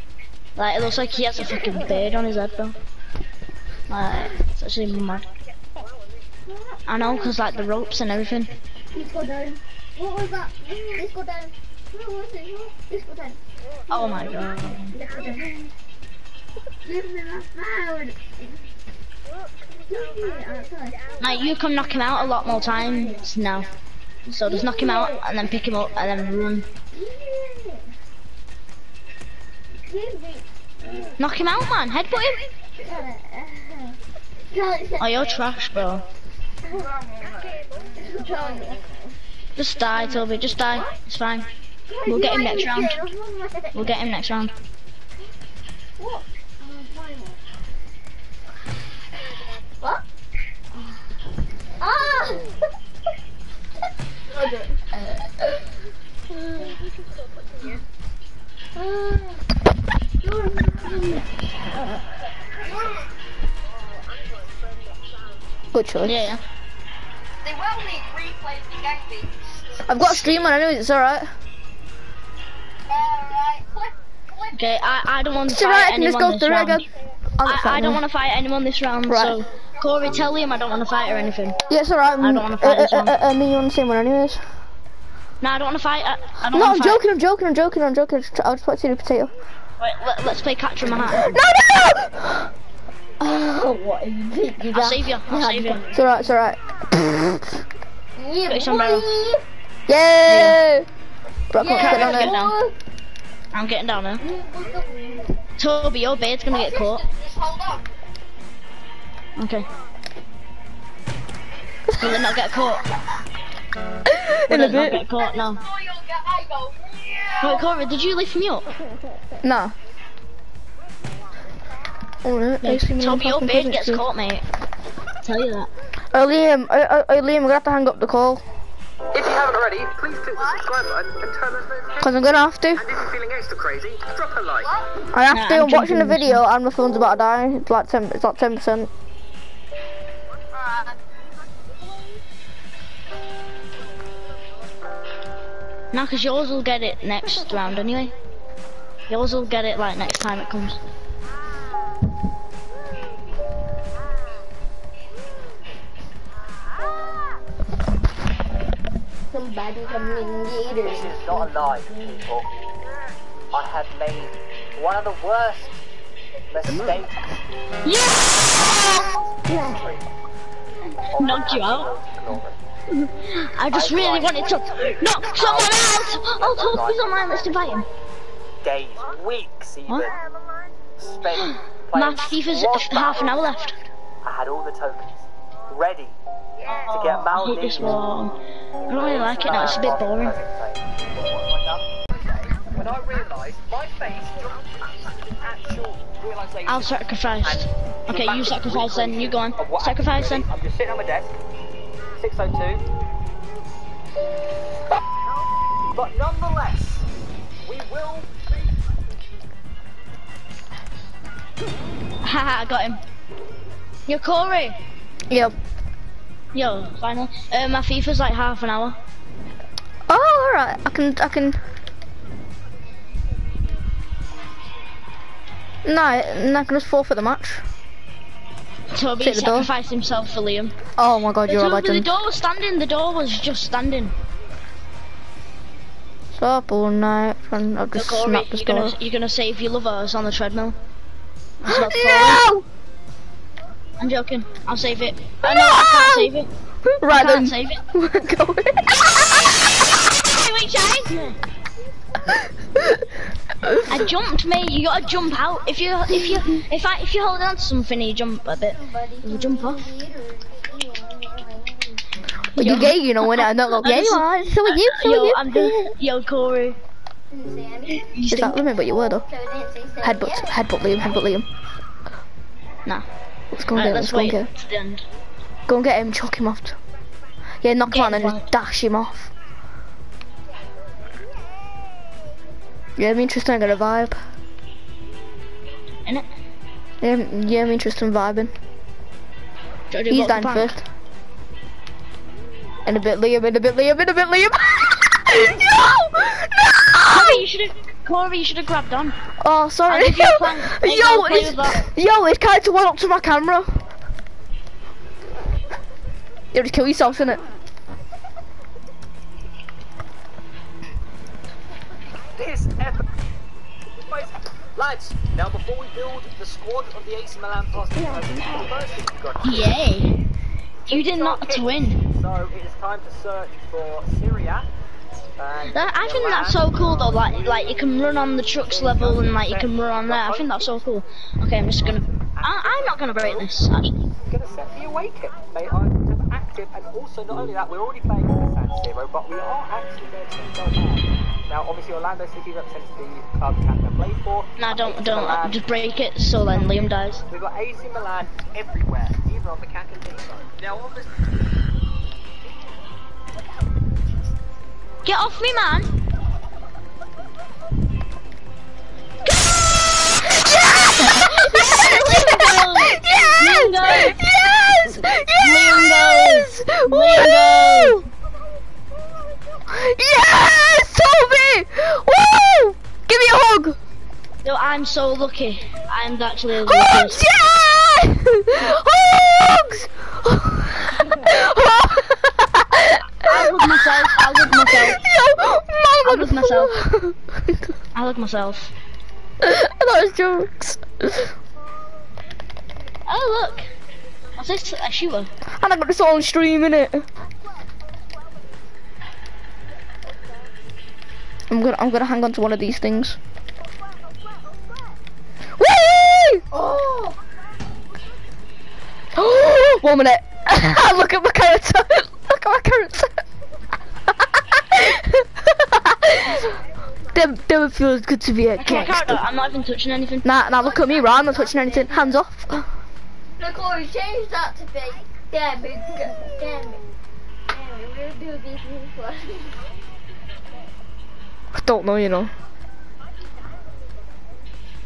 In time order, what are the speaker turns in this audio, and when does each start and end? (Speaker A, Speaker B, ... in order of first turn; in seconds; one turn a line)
Speaker A: 0.6-2.8
Speaker A: 3.9-5.3
Speaker A: 6.9-8.6
Speaker B: 8.9-13.4
Speaker A: 13.9-15.0
Speaker B: 14.9-15.7
Speaker B: 16.8-18.4
Speaker B: 19.9-21.1
Speaker A: 21.2-23.7
Speaker A: 24.3-26.7
Speaker B: 24.3-25.2
Speaker B: 26.9-27.9
Speaker B: 29.9-30.4
Speaker A: 31.2-32.5
Speaker B: 32.8-34.0
Speaker B: 34.5-35.2
Speaker A: 35.0-36.0
Speaker B: 36.7-37.1
Speaker C: 37.0-37.5
Speaker B: 37.9-38.9
Speaker A: 39.6-41.5
Speaker B: 39.9-40.9
Speaker B: 41.9-43.8
Speaker A: 42.1-43.0
Speaker A: 43.7-44.5
Speaker B: 46.0-47.4
Speaker B: 51.8-52.5
Speaker B: 54.3-55.5
Speaker B: 56.3-56.8
Speaker B: 58.8-59.4
Speaker B: 60.2-61.3
Speaker C: 62.6-63.1
Speaker D: 65.7-66.3
Speaker A: 66.0-66.4
Speaker C: 67.4-69.8
Speaker D: 69.8-71.3
Speaker C: 72.9-74.6
Speaker A: 74.5-76.9
Speaker D: 75.5-76.8
Speaker D: 77.4-78.0
Speaker A: 77.4-81.6
Speaker D: 79.1-79.4
Speaker D: 81.7-84.4
Speaker A: 82.2-83.2
Speaker A: 85.4-87.0
Speaker D: 86.5-89.3
Speaker A: 89.8-91.4
Speaker D: 91.0-92.5
Speaker B: 93.2-96.1
Speaker A: 94.7-95.9
Speaker D: 95.9-97.5
Speaker B: 98.2-99.4
Speaker A: 98.5-99.1
Speaker D: 99.9-100.9
Speaker A: 100.3-100.6
Speaker D: 101.5-102.4
Speaker B: 101.6-102.7
Speaker A: 101.7-102.5
Speaker A: 103.5-104.2
Speaker B: 104.2-105.3
Speaker A: 105.6-107.0
Speaker C: 106.5-107.9
Speaker A: 109.4-109.7
Speaker A: 112.0-112.8
Speaker D: 114.1-115.0
Speaker A: 114.5-115.6
Speaker C: 115.1-117.7
Speaker A: 117.4-118.7
Speaker D: 119.4-119.8
Speaker D: 122.2-124.0
Speaker A: 122.6-124.4
Speaker A: 125.2-125.7
Speaker D: 126.1-128.4
Speaker E: 129.1-132.1
Speaker C: 130.4-130.6
Speaker D: 132.0-132.9
Speaker E: 132.8-134.7
Speaker C: 134.6-134.9
Speaker D: 135.1-138.9
Speaker A: 135.3-136.4
Speaker C: 140.5-141.0
Speaker A: 145.9-148.1
Speaker A: 149.1-150.8
Speaker B: 159.3-161.3
Speaker E: 160.8-162.7
Speaker E: 163.5-165.8
Speaker E: 166.5-167.2
Speaker A: 167.8-168.8
Speaker E: 168.5-170.1
Speaker E: 171.1-172.6
Speaker A: 171.2-171.9
Speaker A: 172.9-177.9
Speaker E: 173.7-177.8
Speaker E: 178.6-180.2
Speaker A: 179.9-180.1
Speaker E: 181.0-183.5
Speaker A: 181.9-183.8
Speaker E: 184.2-186.2
Speaker E: 186.8-188.0
Speaker A: 186.9-188.4
Speaker A: 188.9-190.4
Speaker E: 188.9-194.6
Speaker E: 195.3-201.3
Speaker A: 196.7-200.5
Speaker E: 202.2-202.9
Speaker E: 205.9-207.1
Speaker E: 207.6-208.3
Speaker A: 212.2-213.0
Speaker A: 214.1-214.8
Speaker D: 215.3-215.6
Speaker A: 216.5-219.0
Speaker D: 220.1-221.6
Speaker D: 225.8-227.7
Speaker A: 228.9-230.8
Speaker D: 229.2-229.7
Speaker D: 231.0-232.1
Speaker A: 231.5-234.2
Speaker D: 236.3-239.0
Speaker A: 237.9-240.8
Speaker A: 241.6-242.4
Speaker D: 241.7-242.7
Speaker A: 244.0-246.5
Speaker D: 245.4-246.3
Speaker D: 246.9-250.2
Speaker A: 247.1-247.8
Speaker A: 250.2-251.4
Speaker D: 252.3-254.1
Speaker A: 253.9-259.8
Speaker D: 256.1-256.4
Speaker B: 258.7-262.1
Speaker A: 262.6-266.8
Speaker D: 262.6-265.9
Speaker B: 267.3-268.1
Speaker A: 268.0-268.6
Speaker D: 268.3-269.3
Speaker B: 269.2-270.9
Speaker D: 270.0-271.5
Speaker D: 273.5-274.5
Speaker A: 273.7-275.0
Speaker D: 275.7-276.8
Speaker D: 277.6-279.3
Speaker A: 277.9-278.4
Speaker D: 283.0-284.2
Speaker D: 287.0-288.5
Speaker A: 289.9-290.8
Speaker D: 290.1-290.8
Speaker D: 292.9-297.4
Speaker A: 297.1-299.2
Speaker D: 299.4-303.8
Speaker A: 299.9-301.9
Speaker D: 306.5-307.4
Speaker E: 312.4-313.1
Speaker E: 314.0-319.9
Speaker A: 319.4-320.1
Speaker A: 320.9-322.0
Speaker E: 320.9-324.7
Speaker E: 325.4-327.9
Speaker A: 325.7-333.9
Speaker E: 328.7-330.9
Speaker E: 331.7-333.5
Speaker E: 334.3-345.8
Speaker A: 344.6-347.2
Speaker E: 346.5-351.1
Speaker A: 355.0-355.9
Speaker D: 360.2-368.1
Speaker A: 361.1-364.2
Speaker A: 365.4-368.0
Speaker D: 369.7-373.8
Speaker A: 374.4-377.2
Speaker D: 376.6-387.6
Speaker A: 383.3-385.0
Speaker A: 386.0-386.8
Speaker A: 387.9-388.7
Speaker D: 389.4-391.3
Speaker A: 393.1-393.7
Speaker A: 394.4-395.3
Speaker D: 395.6-397.1
Speaker D: 401.5-403.2
Speaker D: 405.6-406.4
Speaker B: 406.5-407.2
Speaker D: 409.1-413.2
Speaker D: 414.1-416.6
Speaker D: 417.1-419.2
Speaker A: 418.6-420.3
Speaker D: 420.2-422.7
Speaker B: 420.6-422.2
Speaker B: 423.4-426.8
Speaker B: 427.5-429.6
Speaker D: 431.6-432.3